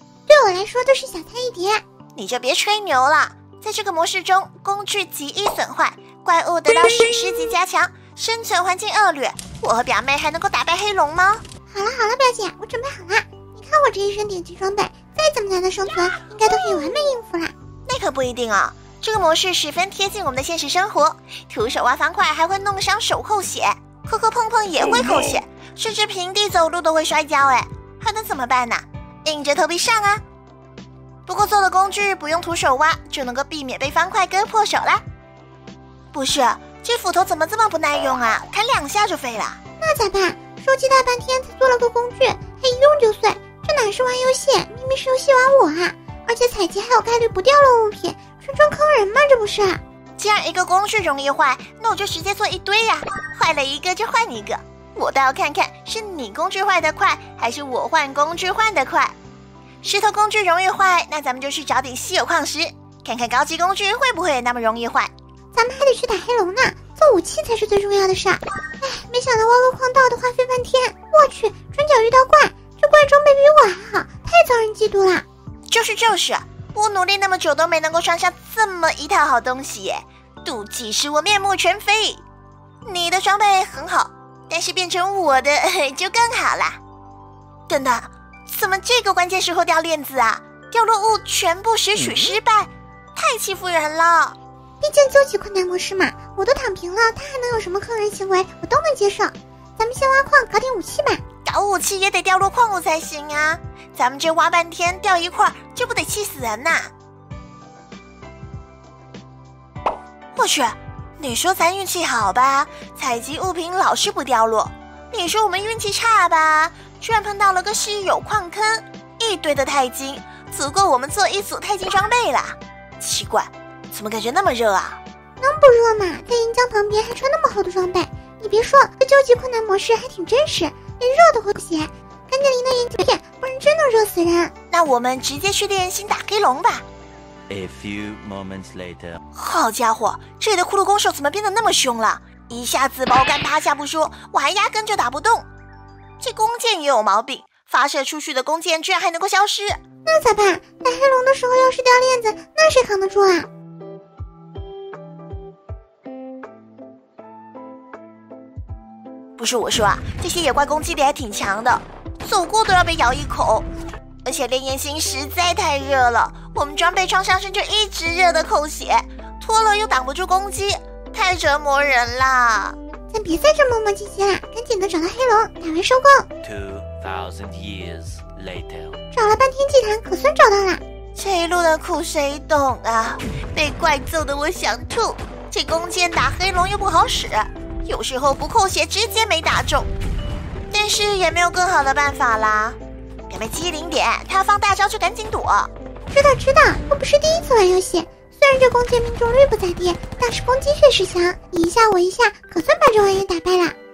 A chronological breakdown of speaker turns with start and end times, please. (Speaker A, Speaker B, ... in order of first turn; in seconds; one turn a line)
Speaker A: 0.3-1.8
Speaker B: 2.2-11.4
Speaker A: 11.7-17.5
Speaker B: 17.9-30.2
Speaker B: 31.3-35.0
Speaker B: 36.1-39.6
Speaker A: 39.8-49.8
Speaker B: 50.2-59.1
Speaker B: 59.8-65.1
Speaker A: 65.5-75.2
Speaker B: 75.7-82.2
Speaker B: 82.8-86.8
Speaker B: 87.7-94.4
Speaker A: 94.8-101.2
Speaker B: 101.4-106.9
Speaker B: 110.3-125.0
Speaker A: 125.4-134.5
Speaker B: 134.7-136.8
Speaker C: 137.5-139.2
Speaker B: 139.3-145.5
Speaker B: 146.2-149.8
Speaker A: 150.1-153.5
Speaker B: 159.4-163.7
Speaker B: 164.2-172.8
Speaker A: 173.1-176.3
Speaker C: 176.4-179.0
Speaker A: 179.1-180.8
Speaker B: 181.2-189.9
Speaker B: 190.7-192.8
Speaker B: 193.3-195.7
Speaker A: 196.1-203.8